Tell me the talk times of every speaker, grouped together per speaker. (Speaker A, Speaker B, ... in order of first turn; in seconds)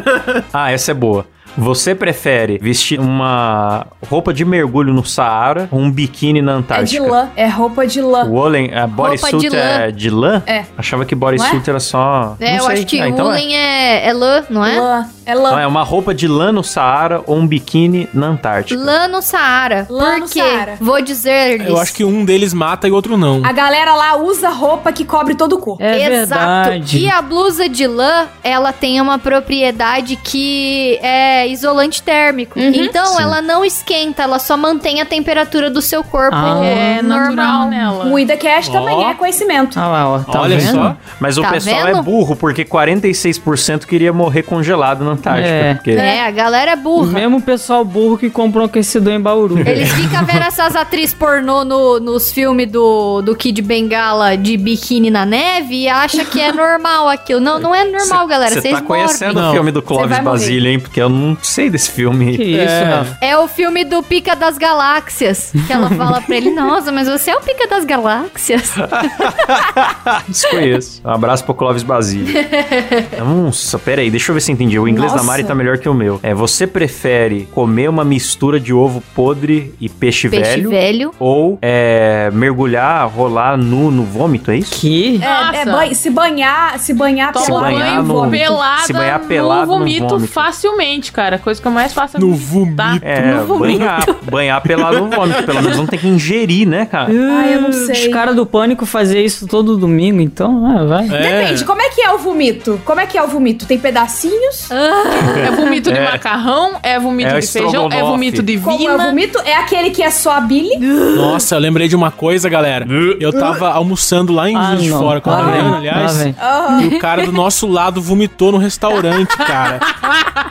Speaker A: 0.5-7.2, 8.2-13.4, 15.5-18.9, 33.0-33.4, 41.1-46.0, 49.6-50.1, 58.0-62.5, 68.9-72.4, 73.2-84.8, 87.4-90.5, 93.0-97.2, 105.2-106.2, 107.2-108.5, 112.8-113.4
Speaker B: 6.7-8.3, 11.3-11.6, 14.6-15.7, 19.9-20.8, 23.4-25.8, 32.6-33.0, 37.4-39.8, 46.0-46.2, 59.8-60.6, 85.2-88.6, 97.3-98.2, 101.2-104.7, 108.6-110.8, 116.3-117.0
Speaker C: 9.0-9.8, 12.4-14.9, 18.7-22.0, 25.9-37.7, 41.4-42.1, 46.0-47.3, 49.6-59.5, 63.2-69.6, 72.3-73.1, 80.3-81.1, 104.7-105.8, 110.8-111.4
Speaker D: 21.6-23.5, 38.6-39.2, 40.3-41.0, 59.3-59.7, 62.5-63.2, 92.2-93.9, 101.1-101.7, 111.1-119.8
Speaker E: 25.8-27.1, 36.3-37.1, 39.8-41.0, 45.3-45.9, 47.0-50.0, 62.3-63.1, 74.9-75.6, 84.7-85.3, 97.1-101.2, 114.5-116.4
Speaker F: 36.5-38.2, 85.2-86.0, 87.3-94.1, 95.3-95.7, 105.4-109.2